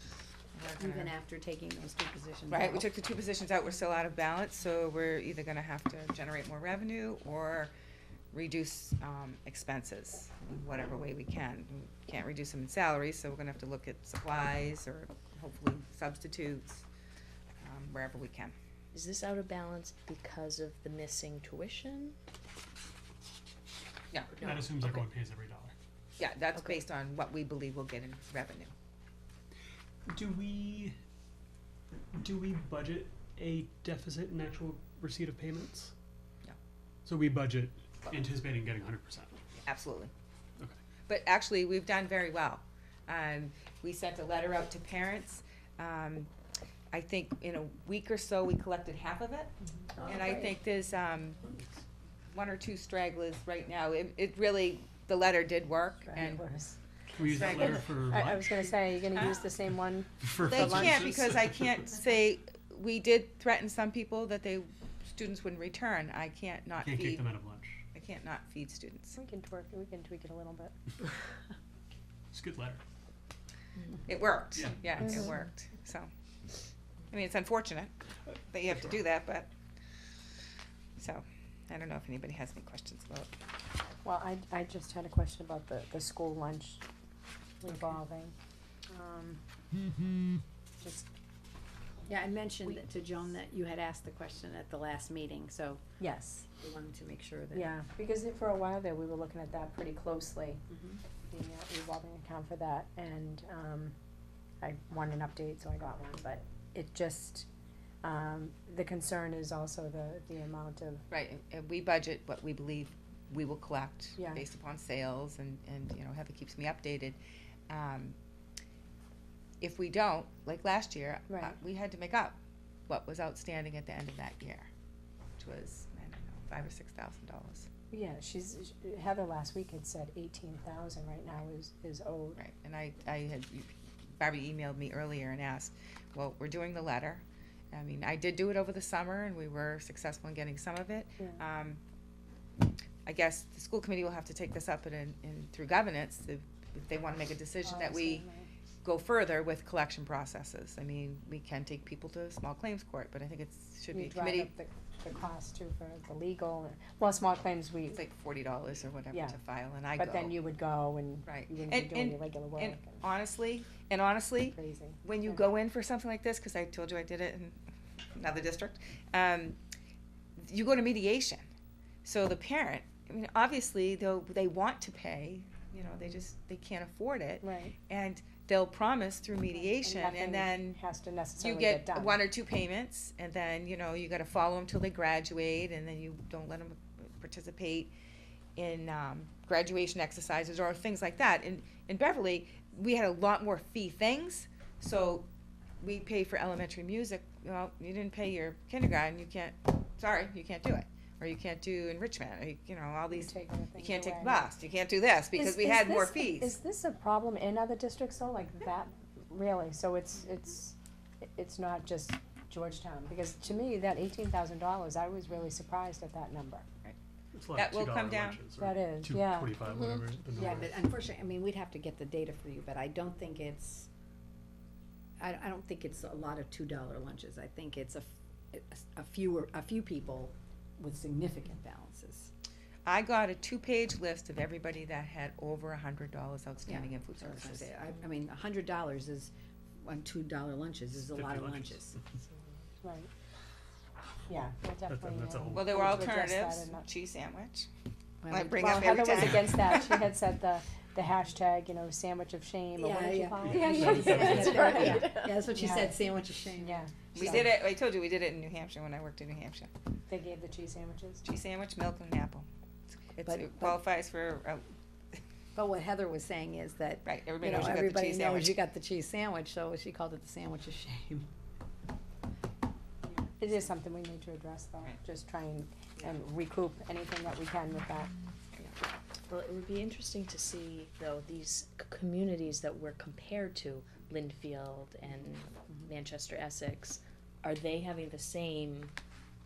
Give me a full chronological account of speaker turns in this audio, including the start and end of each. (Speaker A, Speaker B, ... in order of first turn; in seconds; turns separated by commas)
Speaker A: 0.5-1.1, Speaker B: 0.8-2.9, Speaker A: 2.5-7.7, Speaker A: 8.3-16.9, Speaker A: 17.6-18.5, Speaker C: 18.9-22.2, Speaker A: 24.1-25.0, Speaker D: 24.4-25.7, Speaker A: 26.2-28.7, Speaker D: 30.1-30.9, Speaker D: 32.1-35.9, Speaker D: 37.1-39.4, Speaker A: 39.6-40.1, Speaker A: 41.1-46.3, Speaker A: 46.9-49.5, Speaker B: 50.0-50.4, Speaker A: 50.0-51.4, Speaker A: 52.3-56.4, Speaker E: 56.1-61.0, Speaker D: 57.1-59.3, Speaker A: 57.2-57.9, Speaker A: 59.2-59.4, Speaker D: 60.2-61.9, Speaker A: 60.5-67.3, Speaker D: 66.8-67.8, Speaker A: 67.9-69.2, Speaker E: 69.2-70.7, Speaker D: 72.3-72.8, Speaker A: 74.1-76.1, Speaker D: 74.5-75.0, Speaker E: 75.0-75.3, Speaker A: 77.1-77.9, Speaker A: 78.5-79.5, Speaker A: 81.0-83.3, Speaker E: 84.0-86.8, Speaker E: 87.6-88.3, Speaker E: 88.9-89.4, Speaker E: 90.8-91.1, Speaker B: 92.1-95.8, Speaker E: 96.0-96.5, Speaker B: 96.5-97.7, Speaker E: 97.5-100.6, Speaker B: 100.7-101.0, Speaker E: 101.3-104.0, Speaker E: 104.6-107.5, Speaker E: 108.0-111.0, Speaker A: 111.1-117.2, Speaker E: 114.2-114.4, Speaker A: 117.7-118.2, Speaker A: 119.6-122.4, Speaker E: 121.3-121.6, Speaker A: 122.9-124.7, Speaker A: 125.4-127.7, Speaker E: 127.9-132.4, Speaker A: 132.4-141.8, Speaker A: 143.1-148.3, Speaker E: 147.6-148.5, Speaker A: 148.8-154.5, Speaker E: 153.9-158.0, Speaker A: 157.9-160.3, Speaker E: 159.1-159.4, Speaker E: 160.0-163.0, Speaker A: 161.3-167.6, Speaker E: 164.5-165.4, Speaker A: 168.2-169.6, Speaker A: 170.4-171.4, Speaker A: 172.0-180.8, Speaker E: 177.4-177.8, Speaker E: 179.7-182.2, Speaker A: 181.4-187.9, Speaker A: 188.6-195.3, Speaker A: 195.8-206.6, Speaker E: 203.1-204.5, Speaker E: 205.3-216.6, Speaker D: 217.3-220.8, Speaker A: 217.6-218.4, Speaker E: 218.6-219.7, Speaker E: 220.3-220.7, Speaker B: 220.4-223.9, Speaker B: 225.2-232.3, Speaker A: 232.9-237.7, Speaker B: 236.7-239.3, Speaker B: 239.8-242.0, Speaker D: 241.0-241.9, Speaker E: 242.8-243.1, Speaker E: 244.3-246.9, Speaker D: 244.9-246.0, Speaker A: 245.5-247.7, Speaker B: 248.2-249.2, Speaker A: 248.3-249.9, Speaker E: 248.6-255.9, Speaker B: 252.8-257.5, Speaker D: 253.4-254.9, Speaker E: 256.6-257.5, Speaker A: 257.1-259.7, Speaker E: 260.1-261.2, Speaker A: 261.2-262.5, Speaker A: 263.0-264.6, Speaker B: 263.2-263.8, Speaker B: 265.6-271.3, Speaker A: 267.1-268.6, Speaker E: 273.2-278.1, Speaker C: 279.3-288.9